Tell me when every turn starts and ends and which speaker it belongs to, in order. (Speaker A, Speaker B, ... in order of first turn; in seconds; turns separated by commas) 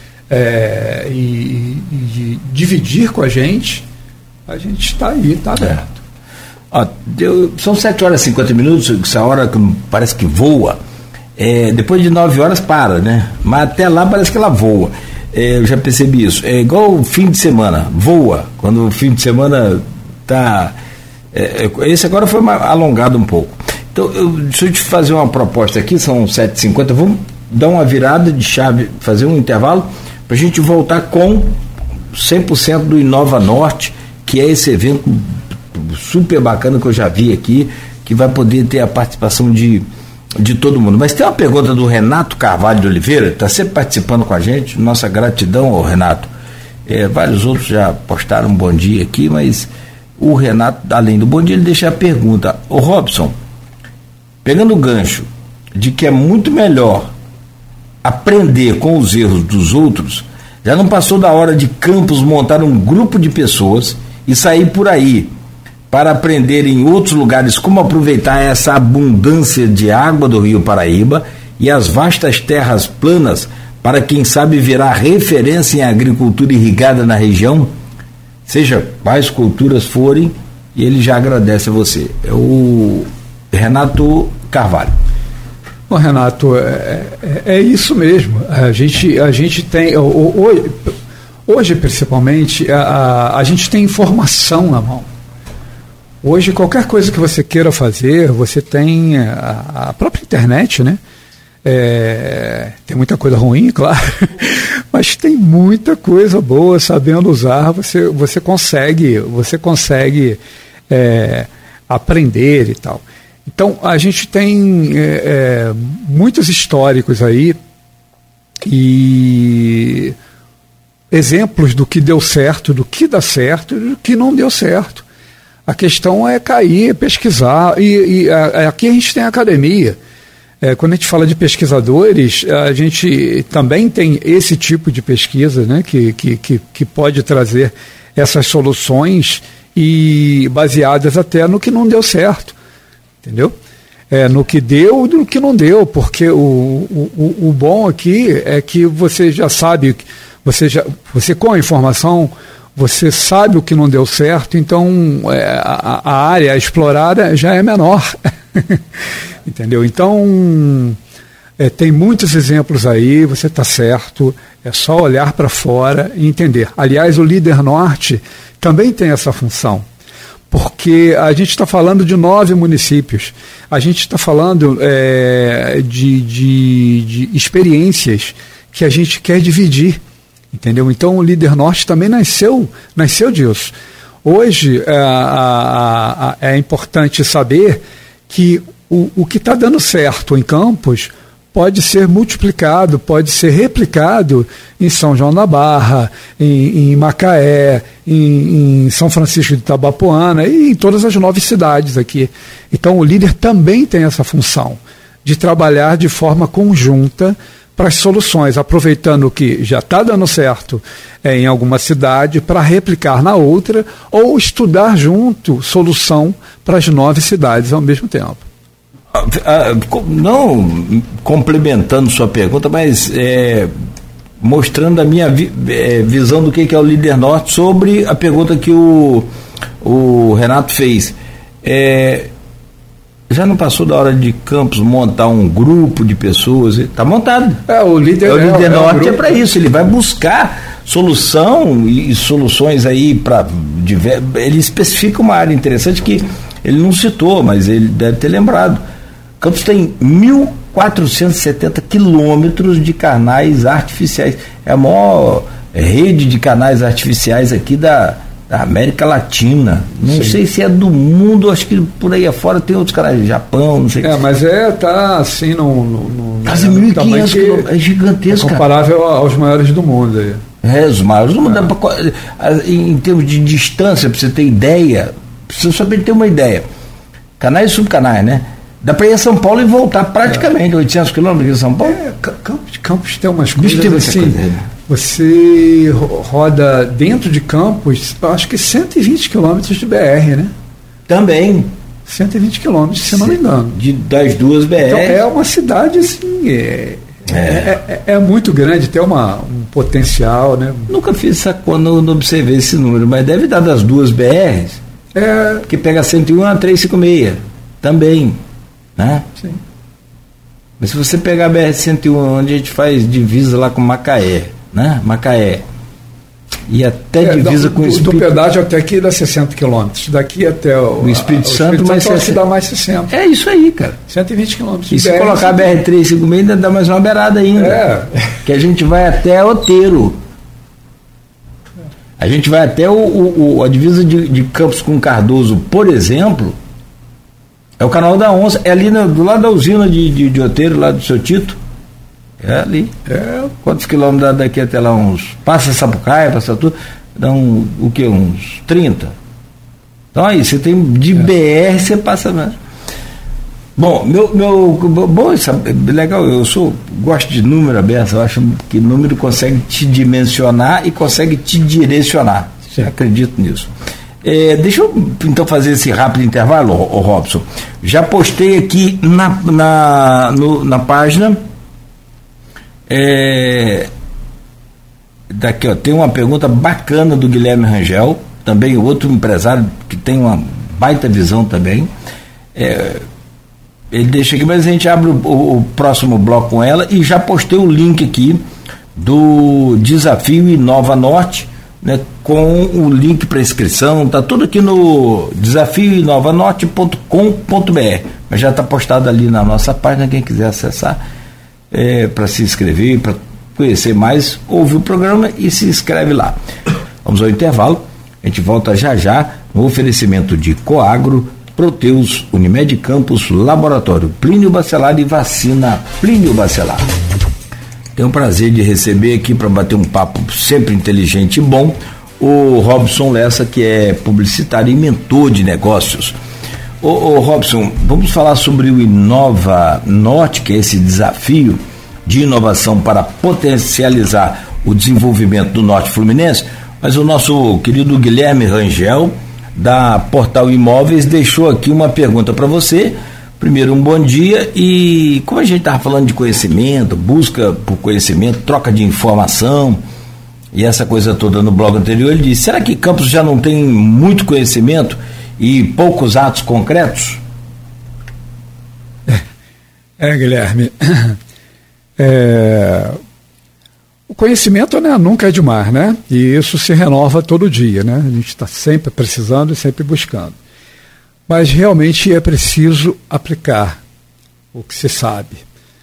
Speaker A: 0.3-3.8, Speaker A: 4.5-6.0, Speaker B: 6.7-10.8, Speaker B: 11.4-20.7, Speaker B: 21.3-31.6, Speaker B: 32.1-39.8, Speaker B: 40.4-46.3, Speaker B: 46.9-53.3, Speaker B: 54.4-57.1, Speaker B: 58.0-65.3, Speaker B: 65.9-77.7, Speaker B: 78.5-85.0, Speaker A: 85.9-90.9, Speaker A: 91.5-95.1, Speaker A: 96.2-101.0, Speaker A: 101.6-110.4, Speaker A: 110.9-117.6, Speaker A: 118.7-120.1, Speaker A: 121.1-125.0, Speaker A: 125.7-130.0, Speaker A: 130.6-142.6, Speaker A: 143.2-143.5, Speaker A: 144.1-158.8, Speaker A: 159.4-161.0, Speaker A: 161.6-169.8, Speaker A: 170.5-180.0, Speaker A: 180.5-183.7, Speaker A: 184.2-218.4, Speaker B: 219.1-223.7, Speaker B: 224.4-229.3, Speaker B: 229.8-232.3, Speaker B: 233.3-237.6, Speaker A: 237.7-239.4, Speaker B: 238.2-248.8, Speaker B: 249.4-264.2, Speaker A: 260.1-260.4, Speaker A: 264.0-267.7, Speaker B: 266.4-268.6, Speaker A: 268.3-270.4, Speaker B: 270.6-276.6, Speaker B: 277.4-282.0, Speaker A: 281.8-290.5, Speaker B: 283.6-284.7, Speaker B: 291.1-291.7, Speaker A: 292.1-293.8, Speaker B: 293.1-295.2, Speaker A: 294.8-300.9, Speaker B: 297.3-297.7, Speaker B: 300.9-304.8, Speaker A: 305.1-305.7, Speaker B: 305.6-308.4, Speaker B: 309.0-309.3, Speaker B: 310.8-315.6, Speaker B: 316.7-318.3, Speaker A: 317.2-323.1, Speaker B: 321.0-322.4, Speaker B: 323.1-324.0, Speaker A: 324.1-325.8, Speaker B: 324.9-327.8, Speaker A: 327.6-328.3, Speaker B: 328.4-330.2, Speaker B: 332.2-336.6, Speaker B: 337.8-341.6, Speaker B: 342.4-342.9, Speaker A: 343.1-343.5, Speaker B: 343.5-349.1, Speaker B: 350.1-352.6, Speaker B: 353.8-363.7, Speaker B: 364.2-371.4, Speaker B: 372.9-373.9, Speaker B: 375.3-381.9, Speaker B: 382.5-383.0, Speaker B: 383.9-388.4, Speaker B: 388.9-401.0, Speaker B: 401.7-406.4, Speaker B: 407.0-416.9, Speaker B: 417.9-426.1, Speaker B: 426.8-449.8, Speaker B: 450.5-457.2, Speaker A: 460.0-461.2, Speaker A: 462.0-463.0, Speaker A: 464.1-470.4, Speaker A: 471.3-473.8, Speaker A: 474.5-475.4